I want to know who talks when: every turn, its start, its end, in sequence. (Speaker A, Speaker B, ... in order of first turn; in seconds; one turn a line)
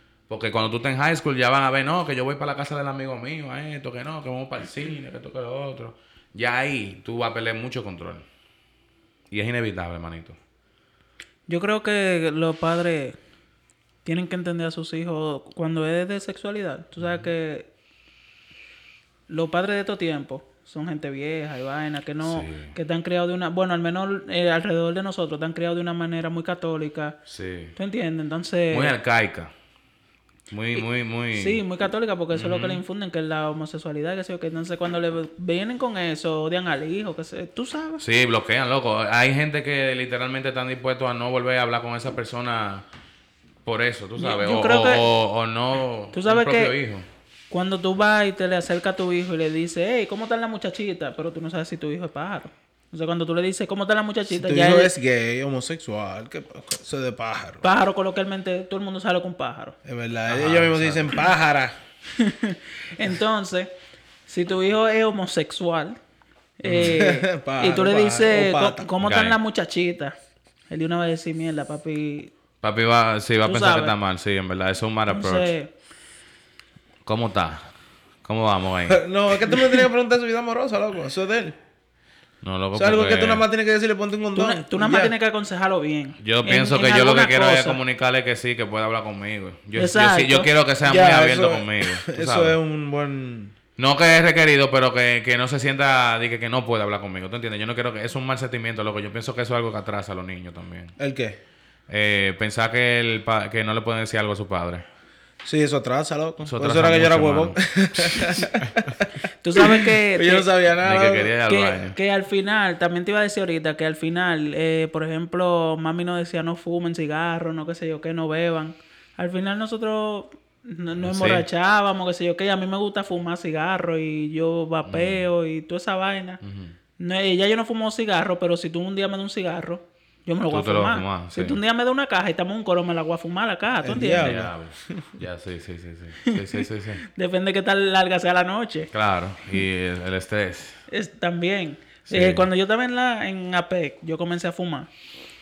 Speaker A: 0.3-8.2
Speaker A: 9.3-10.4
Speaker B: 11.5-13.2
Speaker B: 14.0-17.7
Speaker B: 19.3-27.2
Speaker A: 22.2-22.7
Speaker A: 27.3-27.7
Speaker B: 27.8-28.9
Speaker A: 28.7-29.5
Speaker A: 30.5-31.6
Speaker B: 31.3-38.0
Speaker A: 32.3-32.8
Speaker A: 38.0-42.8
Speaker A: 43.6-47.0
Speaker B: 44.2-45.1
Speaker B: 46.1-46.8
Speaker B: 47.5-54.9
Speaker C: 54.4-57.6
Speaker B: 57.6-59.7
Speaker C: 59.8-61.7
Speaker A: 60.3-61.2
Speaker B: 62.1-63.7
Speaker B: 64.3-66.0
Speaker B: 66.6-70.1
Speaker A: 66.6-67.0
Speaker C: 66.7-68.9
Speaker A: 69.0-69.4
Speaker B: 70.7-72.3
Speaker A: 72.6-75.5
Speaker B: 73.4-73.9
Speaker B: 75.1-75.7
Speaker A: 77.0-77.7
Speaker A: 78.2-79.0
Speaker C: 78.9-81.5
Speaker A: 82.4-83.4
Speaker C: 82.7-85.1
Speaker B: 84.3-87.8
Speaker A: 86.2-92.6
Speaker B: 89.7-90.5
Speaker C: 90.8-93.5
Speaker A: 93.8-101.0
Speaker C: 101.0-101.4
Speaker A: 101.9-104.8
Speaker C: 105.4-109.1
Speaker A: 106.4-108.8
Speaker B: 109.4-110.5
Speaker C: 109.6-111.3
Speaker A: 110.8-112.0
Speaker B: 111.5-126.4
Speaker A: 121.0-121.5
Speaker A: 124.8-125.2
Speaker A: 126.4-126.7
Speaker B: 127.0-134.4
Speaker A: 130.5-131.6
Speaker C: 133.8-135.1
Speaker A: 134.2-137.0
Speaker B: 137.0-138.9
Speaker A: 138.9-140.8
Speaker B: 140.9-144.9
Speaker A: 142.1-142.5